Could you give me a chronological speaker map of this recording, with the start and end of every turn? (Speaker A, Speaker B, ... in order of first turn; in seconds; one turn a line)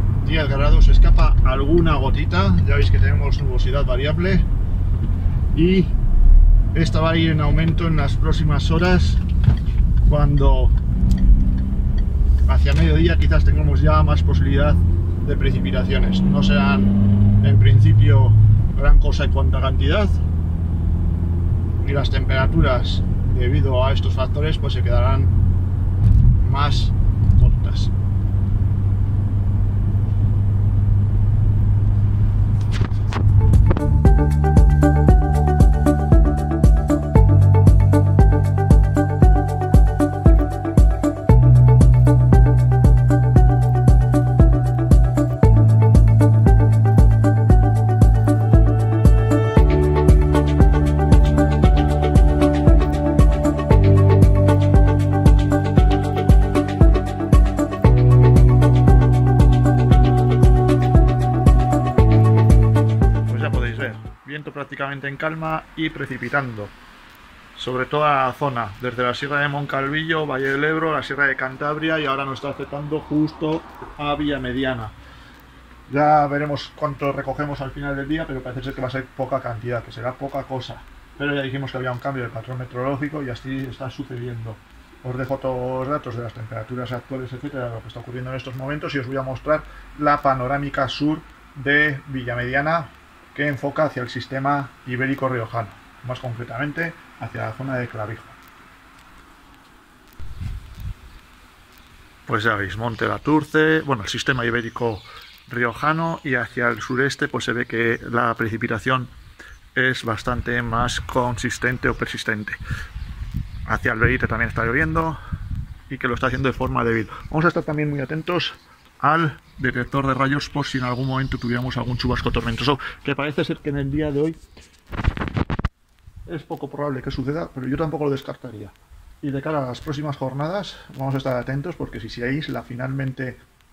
Speaker A: 0.2-4.5
Speaker A: 5.5-5.9
Speaker A: 6.7-9.2
Speaker A: 10.1-10.8
Speaker A: 12.5-20.2
Speaker A: 21.8-25.4
Speaker A: 26.4-27.9
Speaker A: 63.3-66.8
Speaker A: 67.5-75.0
Speaker A: 75.9-98.4
Speaker A: 102.3-109.1
Speaker A: 109.8-112.6
Speaker A: 113.7-115.2
Speaker A: 115.9-124.4
Speaker A: 126.3-133.4